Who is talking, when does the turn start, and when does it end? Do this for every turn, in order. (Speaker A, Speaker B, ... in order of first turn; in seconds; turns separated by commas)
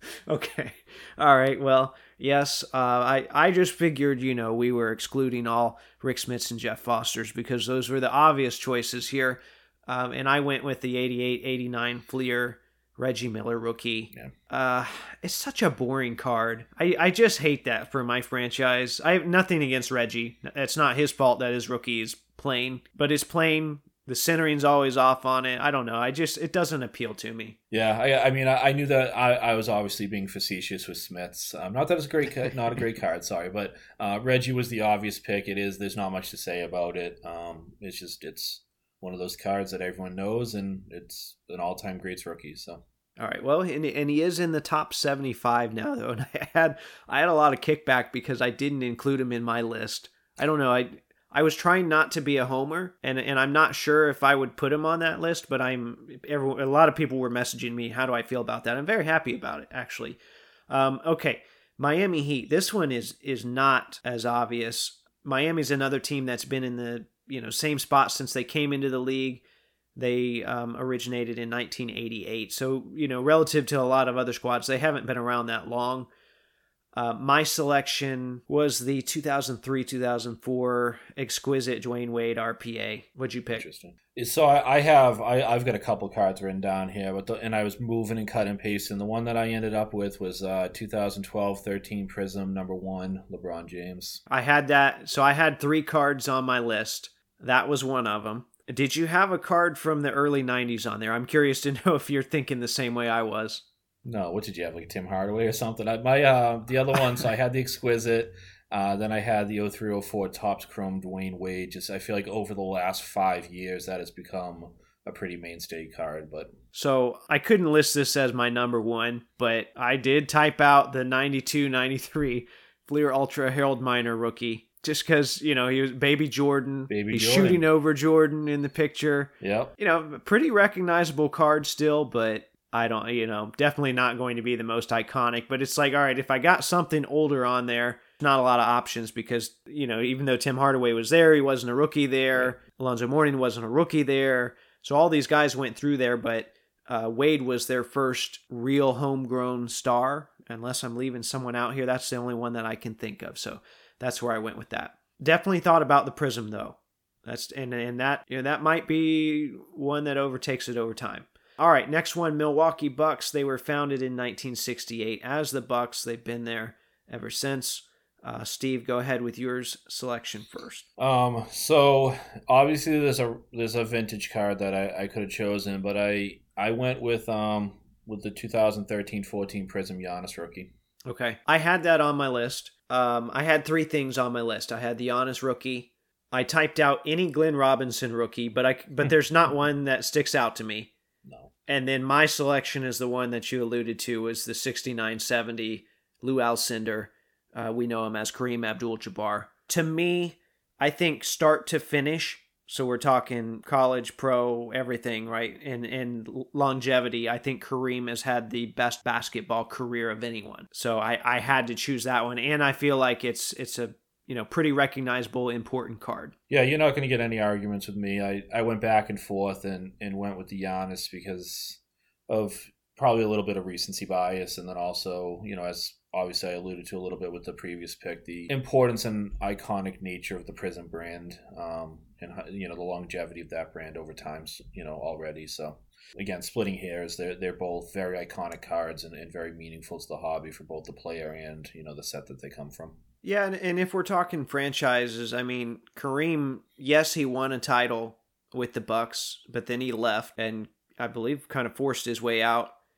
Speaker A: 0.3-27.6, Speaker B: 27.7-42.8, Speaker A: 43.2-69.4, Speaker A: 70.0-76.1, Speaker A: 76.9-83.6, Speaker B: 83.5-94.2, Speaker A: 94.3-103.6, Speaker B: 104.0-116.5, Speaker A: 116.7-170.8, Speaker B: 126.9-127.6, Speaker B: 129.4-129.7, Speaker B: 171.0-180.7, Speaker A: 181.1-190.9, Speaker B: 191.2-191.5, Speaker A: 191.7-216.3, Speaker B: 216.5-243.0, Speaker A: 243.2-252.7